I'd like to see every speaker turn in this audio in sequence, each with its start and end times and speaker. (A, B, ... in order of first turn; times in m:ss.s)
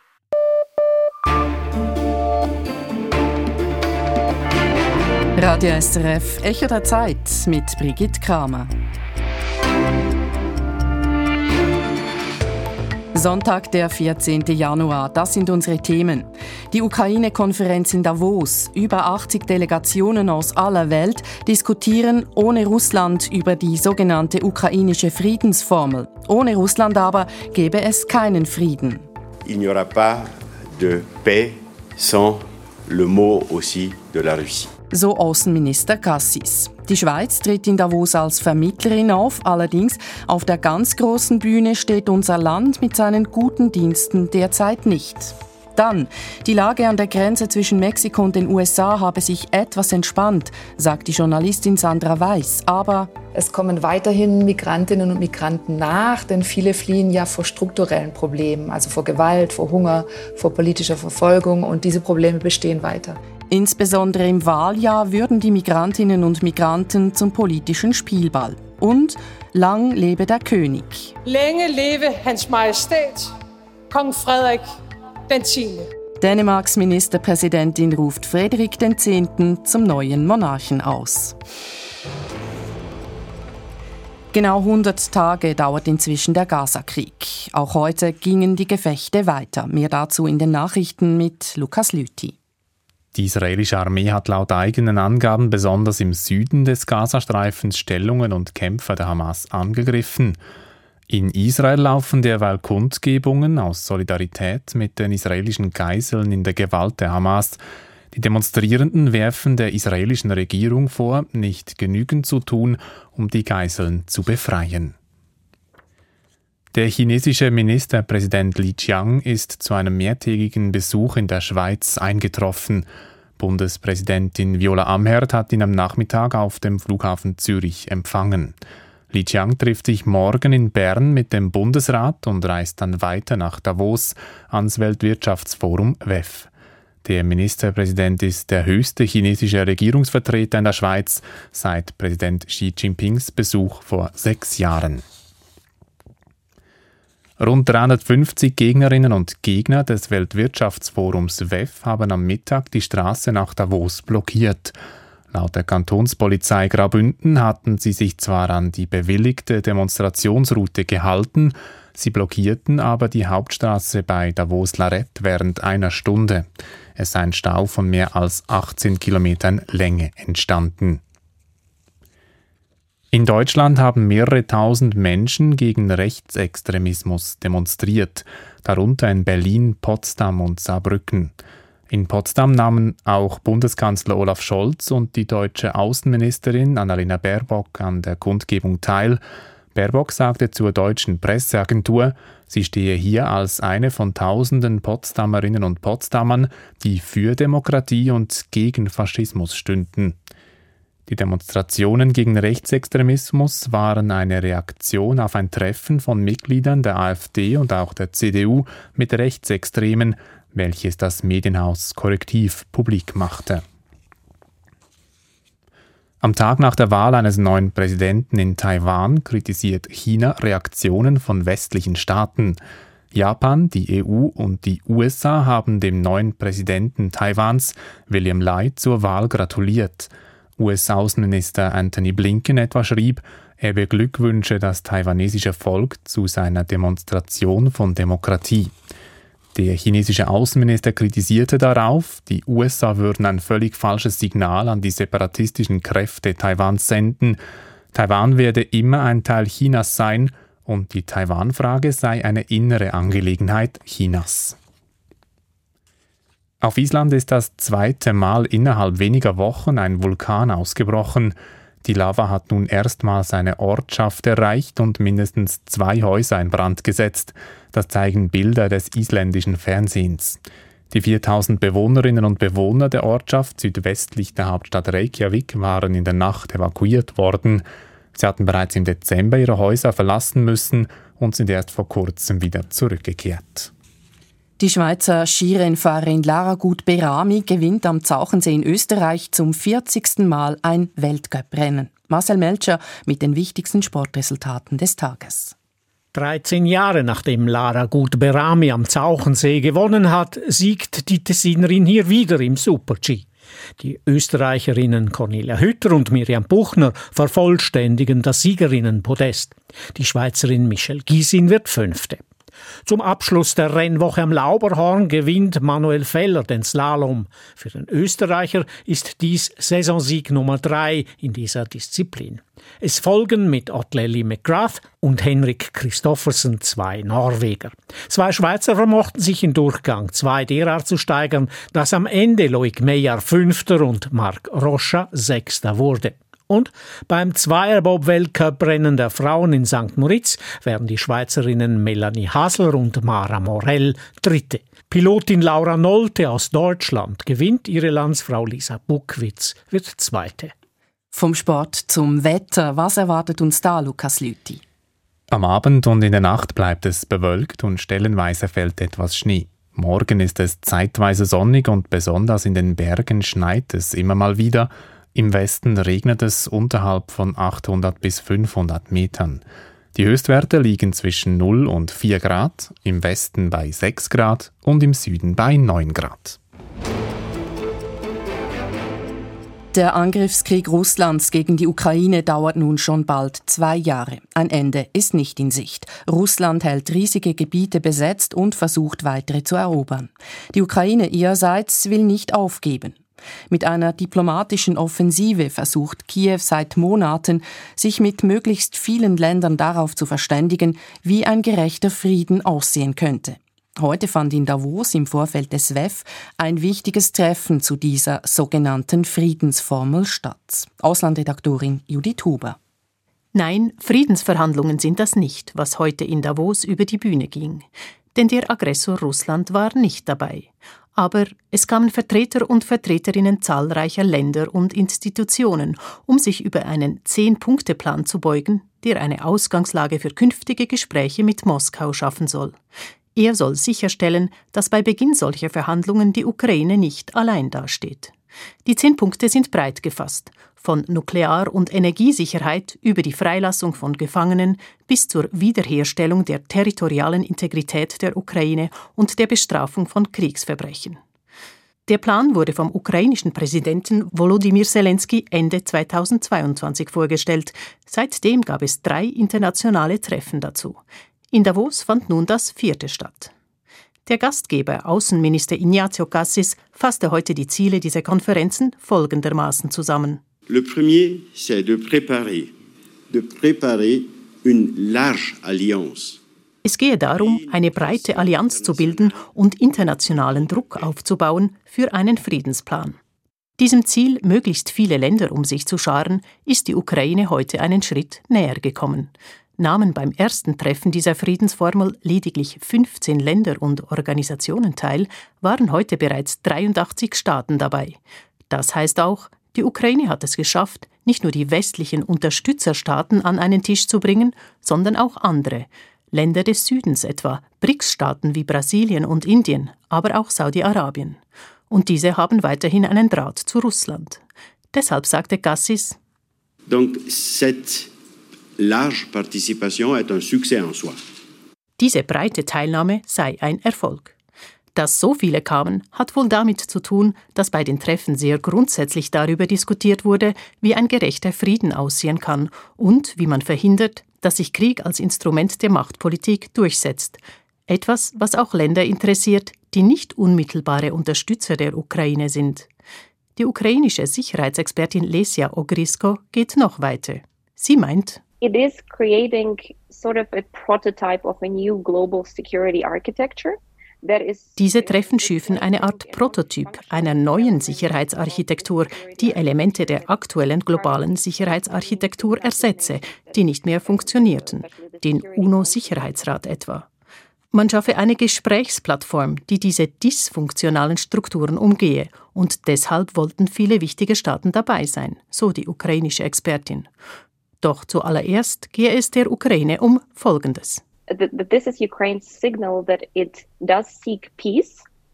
0:05.4-0:08.7 A
0:13.1-0:29.0 A
0:29.4-0:34.7 B
0:34.9-0:53.1 A
0:53.3-1:03.2 C
1:03.5-1:11.1 A
1:11.2-1:13.3 D
1:13.9-1:14.7 D
1:15.3-1:15.9 D
1:16.2-1:21.4 A
1:24.3-1:32.4 A
1:33.1-1:40.4 E
1:41.1-1:47.6 E
1:48.1-1:54.9 E
1:56.7-2:08.6 E
2:09.1-2:16.5 E
2:17.0-2:25.0 E
2:27.4-2:34.7 E
2:35.3-2:51.0 E
2:53.1-3:01.3 E
3:01.9-3:09.2 E
3:09.7-3:20.2 E
3:21.1-3:33.6 E
3:36.2-3:42.6 E
3:43.1-3:58.7 E
3:59.5-4:07.4 E
4:07.9-4:14.6 E
4:16.6-4:43.7 E
4:44.6-4:55.5 A
4:56.1-5:03.3 F
5:03.8-5:12.2 F
5:12.8-5:50.5 F
5:51.1-5:54.6 A
5:55.3-6:09.4 E
6:09.9-6:16.4 E
6:19.7-6:33.0 A
6:33.5-6:52.6 A
6:53.3-7:12.6 G
7:13.2-7:18.1 G
7:18.6-7:31.0 G
7:31.9-7:40.8 G
7:41.3-7:43.3 G
7:44.0-7:50.2 G
7:50.5-7:52.6 B
7:53.1-7:56.2 B
7:56.6-8:03.0 G
7:57.1-7:59.2 B
8:03.6-8:18.0 G
8:18.5-8:34.2 G
8:34.7-8:36.0 G
8:36.7-8:37.9 B
8:38.6-8:41.0 B
8:41.8-8:44.1 G
8:44.7-9:02.7 G
9:03.4-9:08.2 G
9:08.4-9:26.3 H
9:14.6-9:26.9 G
9:27.5-9:36.9 G
9:37.6-9:40.8 G
9:41.1-9:44.8 H